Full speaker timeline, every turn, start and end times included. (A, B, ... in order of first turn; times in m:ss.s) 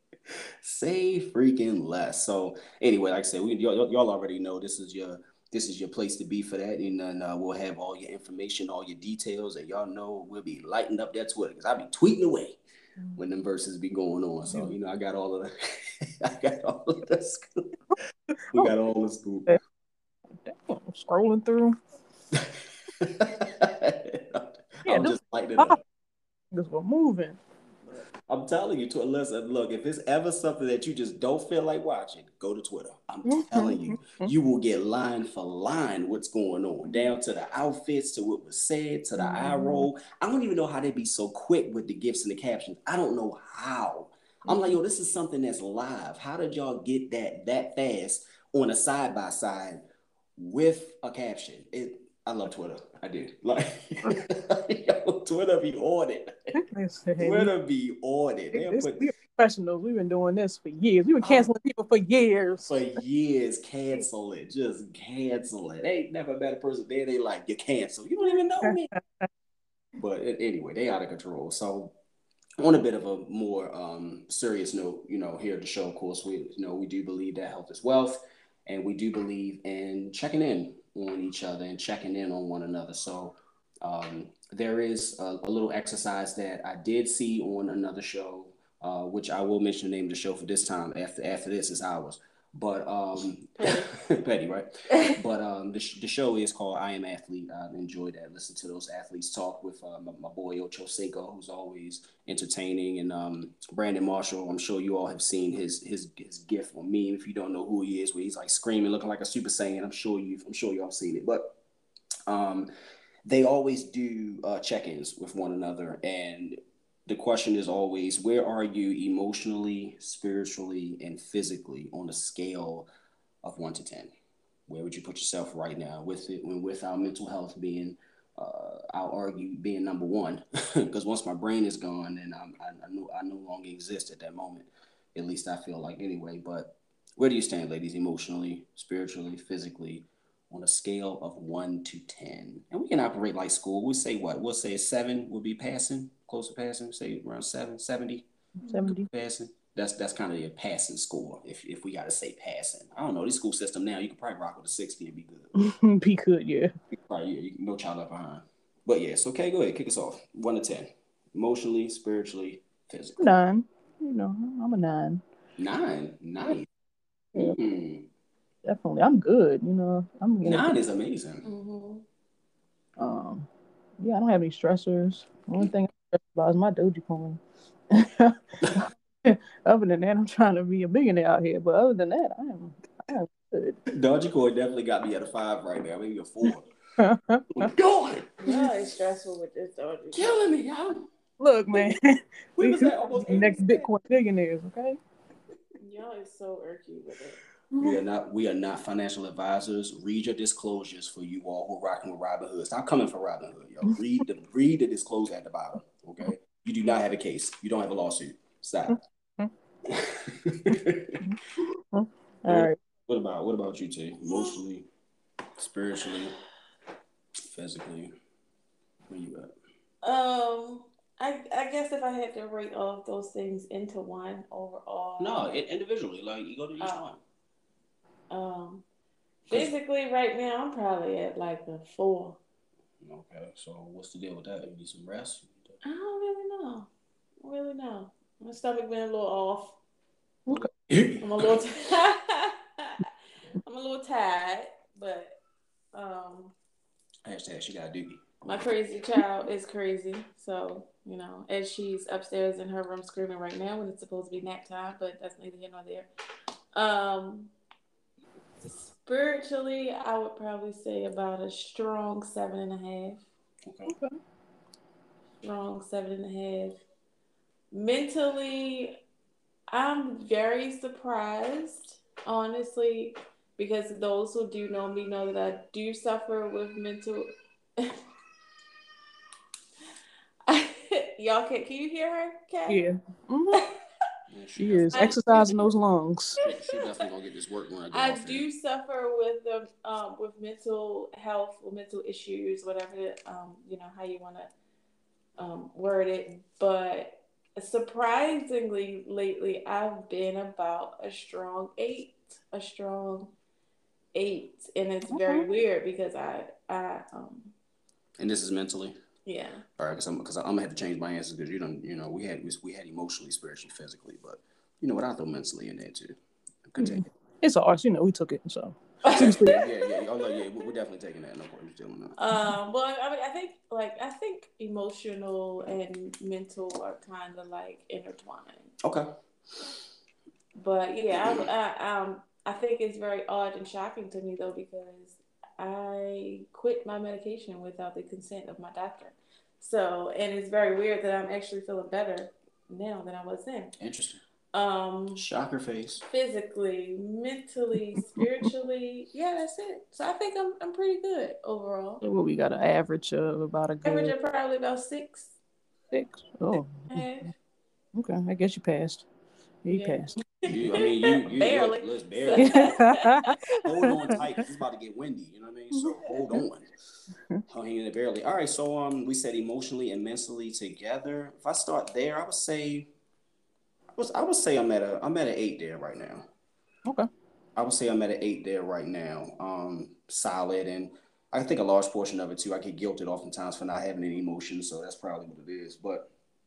0:00.3-0:12.6 A
0:13.2-0:17.7 A
0:14.5-0:14.7 B
0:18.5-0:19.6 A
0:20.4-0:21.8 B
0:22.3-0:25.8 A
0:24.9-0:25.8 B
0:26.5-0:27.4 B
0:28.3-0:49.8 A
0:33.3-0:34.3 B
0:39.2-0:39.9 B
0:44.5-0:44.8 B
0:50.4-0:56.6 A
0:56.6-0:57.5 B
0:57.2-0:59.1 A
0:58.5-1:02.7 B
1:01.2-1:01.5 A
1:02.6-1:09.0 A
1:08.6-1:09.2 B
1:10.0-1:12.0 A
1:12.6-1:51.6 A
1:33.6-1:33.9 C
1:52.3-1:52.7 A
1:53.2-2:02.9 A
2:03.4-2:04.1 A
2:04.7-2:28.3 A
2:28.6-2:28.9 C
2:28.7-2:29.1 B
2:28.9-2:35.6 A
2:35.6-2:36.7 B
2:36.9-2:43.4 A
2:43.2-2:45.2 B
2:45.6-2:46.7 A
2:47.4-2:48.1 A
2:48.6-2:50.8 B
2:50.4-2:51.5 A
2:51.4-2:52.0 C
2:53.0-2:53.5 B
2:54.0-3:03.8 B
2:58.6-2:58.9 A
3:03.9-3:06.7 A
3:07.0-3:07.7 B
3:07.5-3:08.7 A
3:08.4-3:10.4 C
3:10.1-3:11.1 A
3:11.4-3:15.0 B
3:12.6-3:13.8 A
3:15.8-3:17.4 C
3:17.8-3:29.0 A
3:28.9-3:29.5 B
3:29.9-3:31.2 A
3:31.9-3:32.8 B
3:32.5-3:34.9 A
3:34.3-3:34.5 C
3:35.6-3:36.4 A
3:37.5-3:38.2 A
3:39.1-3:39.5 A
3:40.0-3:45.6 C
3:45.2-3:47.2 A
3:46.8-3:47.1 C
3:48.3-3:48.8 C
3:49.5-3:52.4 C
3:53.0-3:55.8 A
3:55.8-3:56.9 C
3:57.4-3:59.8 C
4:00.5-4:01.6 A
4:01.2-4:03.1 C
4:03.6-4:05.4 C
4:05.9-4:06.5 C
4:07.3-4:08.7 A
4:08.5-4:16.1 C
4:16.7-4:17.5 C
4:18.6-4:23.2 C
4:23.7-4:23.9 A
4:23.9-4:24.2 B
4:25.4-4:26.8 C
4:27.7-4:29.0 C
4:29.7-4:38.0 C
4:40.5-4:42.8 C
4:42.7-4:43.7 B
4:44.3-4:45.2 A
4:44.6-4:46.4 B
4:44.9-4:45.7 C
4:46.4-4:47.1 C
4:46.4-4:48.5 A
4:47.9-4:54.5 C
4:55.4-5:03.3 C
5:04.1-5:07.5 C
5:05.1-5:05.5 B
5:08.2-5:09.0 A
5:09.3-5:09.7 C
5:09.8-5:17.1 A
5:16.8-5:19.6 B
5:19.1-5:19.6 C
5:19.1-5:22.2 A
5:22.2-5:28.7 C
5:28.8-5:29.1 A
5:30.6-5:43.7 C
5:31.1-5:31.5 A
5:43.8-5:44.2 A
5:44.5-5:45.2 C
5:45.2-5:46.0 A
5:46.1-5:52.0 C
5:48.2-5:48.4 B
5:52.0-5:54.1 B
5:53.9-5:55.4 C
5:55.9-5:57.0 B
5:56.8-5:57.3 C
5:58.0-5:59.1 B
5:59.6-6:00.2 B
5:59.7-6:03.4 C
6:00.5-6:02.8 A
6:02.4-6:04.2 B
6:03.5-6:06.7 A
6:07.5-6:12.9 A
6:14.0-6:16.3 A
6:17.6-6:26.1 A